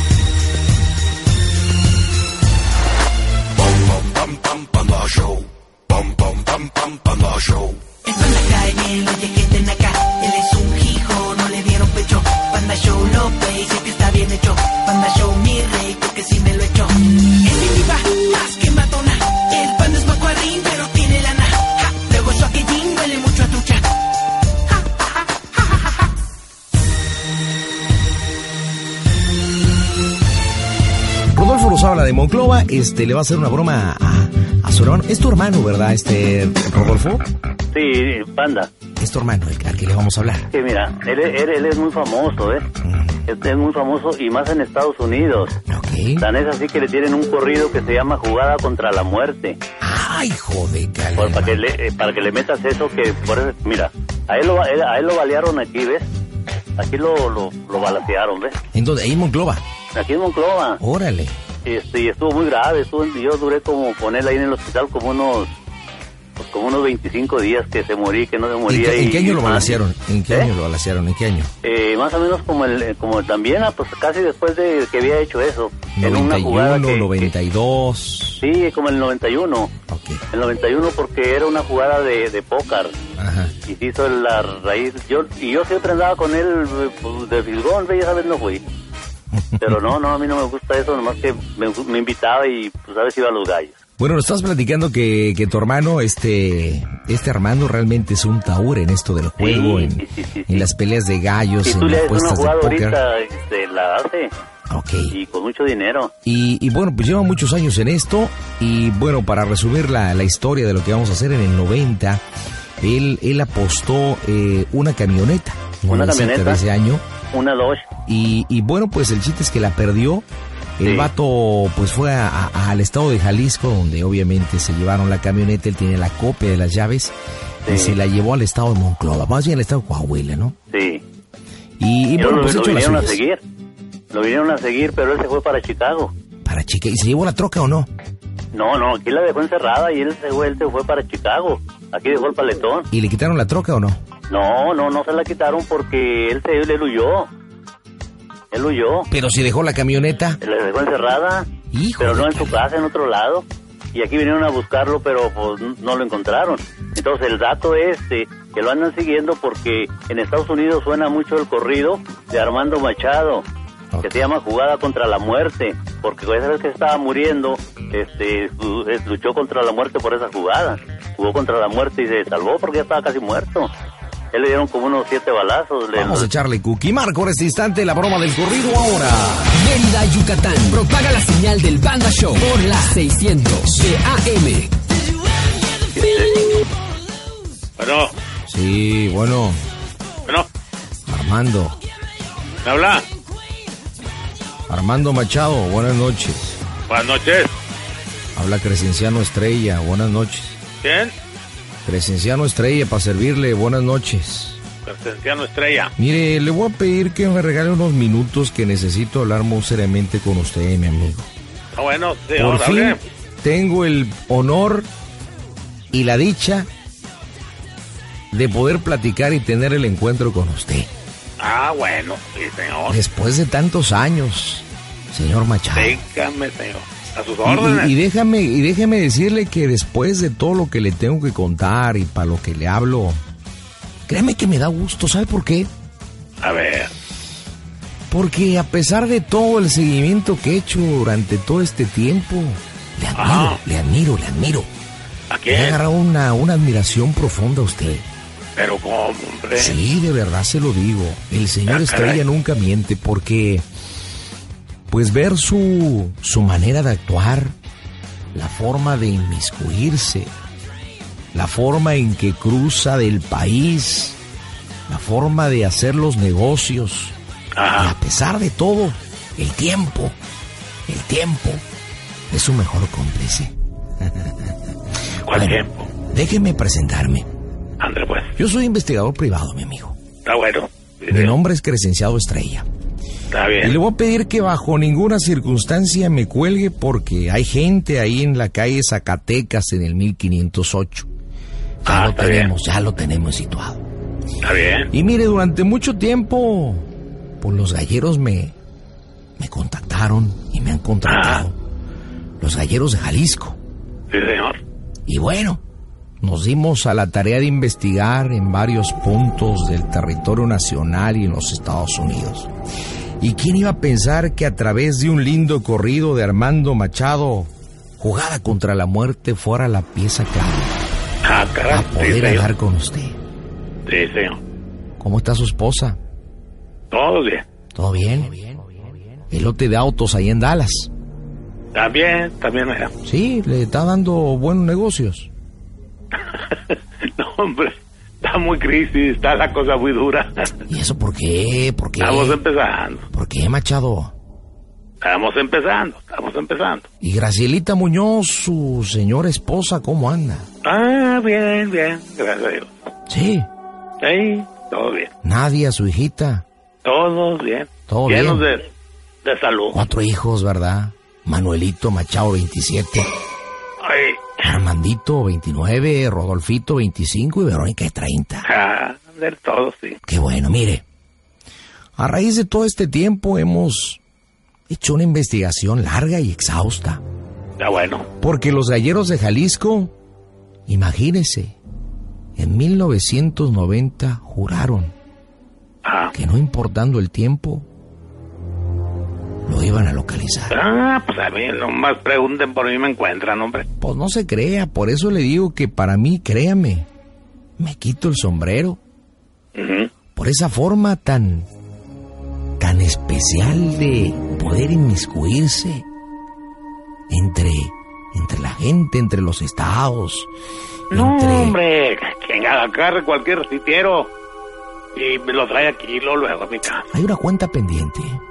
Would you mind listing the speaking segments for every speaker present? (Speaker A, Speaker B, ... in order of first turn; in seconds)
Speaker A: 4.9-5.4, 8.0-23.9
Speaker B: 31.3-37.2, 39.0-40.5, 42.8-43.2, 45.7-46.3, 49.8-51.6, 58.7-59.6, 60.8-61.4, 68.7-71.5, 76.0-78.4, 79.9-80.2, 83.2-83.5, 89.3-89.8, 94.0-103.0, 104.7-105.2, 106.2-112.2, 112.8-117.0, 118.0-120.3, 120.8-130.6, 131.8-133.2, 136.4-137.9, 142.9-144.0, 149.1-150.4, 151.7-152.6, 175.9-179.6, 188.5-189.6, 191.1-191.8, 194.7-196.6, 198.3-200.6, 201.9-204.6, 206.0-211.3, 212.4-214.9, 215.9-216.7, 218.3-220.9, 222.9-226.0, 227.4-233.2, 234.1-235.7, 238.1-244.7, 245.5-248.1, 249.5-253.7, 254.9-257.6, 258.3-260.3, 261.3-264.2, 264.9-267.1, 267.8-270.2, 270.9-271.6, 272.3-273.5, 275.3-277.3, 278.4-280.0, 281.1-282.7, 283.6-291.1, 291.8-293.9, 294.9-296.9, 297.4-298.5, 299.4-301.6, 302.4-303.6, 305.1-305.6, 306.2-312.5, 313.2-320.8, 321.7-323.2, 325.0-326.0, 327.8-330.9, 333.0-335.3, 340.7-342.4, 343.1-344.1, 347.0-350.5, 353.1-353.5, 355.2-356.4, 357.9-358.5, 359.7-363.1, 364.4-368.5, 370.0-370.8, 372.0-374.0, 374.7-377.0, 378.2-379.9, 380.7-381.6, 382.4-384.9, 386.1-387.7, 389.4-390.6, 393.8-396.9, 397.6-398.8, 400.1-401.5, 402.6-405.9, 407.1-410.3, 410.9-411.6, 416.9-418.2
Speaker C: 37.7-38.7, 40.5-42.7, 43.2-45.6, 46.2-49.6, 51.2-56.1, 56.8-58.6, 60.0-60.8, 61.7-65.5, 66.4-70.5, 71.6-77.3, 78.4-79.7, 80.3-82.9, 83.6-88.6, 89.6-93.8, 99.4-100.7, 101.6-104.3, 105.1-106.1, 115.9-116.6, 117.3-117.9, 120.8-121.1, 127.7-128.0, 130.7-131.0, 132.2-133.4, 134.1-136.1, 138.5-142.9, 144.3-147.3, 148.5-149.1, 150.4-151.5, 152.0-163.4, 164.0-173.7, 174.3-176.3, 185.9-186.5
Speaker D: 179.5-184.8
Speaker E: 187.8-188.1, 192.6-193.1, 196.9-197.5, 200.8-201.1, 204.8-205.9, 211.7-213.0, 221.4-223.0, 225.8-227.9, 236.4-236.9, 243.1-243.6, 245.3-245.8, 248.6-249.8, 251.7-252.2, 267.6-267.9, 275.3-275.9, 277.8-278.3, 280.2-281.4, 283.3-283.8, 291.8-292.5, 294.4-294.9, 301.1-301.4, 304.1-304.6, 321.2-322.5, 323.9-324.4, 326.9-327.4, 331.7-332.9, 336.1-340.6, 342.0-343.1, 345.0-346.9, 350.6-352.7, 354.0-355.1, 356.8-358.7, 359.2-359.8, 363.8-364.5, 368.4-370.0, 377.6-378.1, 385.8-386.1, 390.5-393.7, 399.5-399.9, 410.9-414.1, 414.9-416.9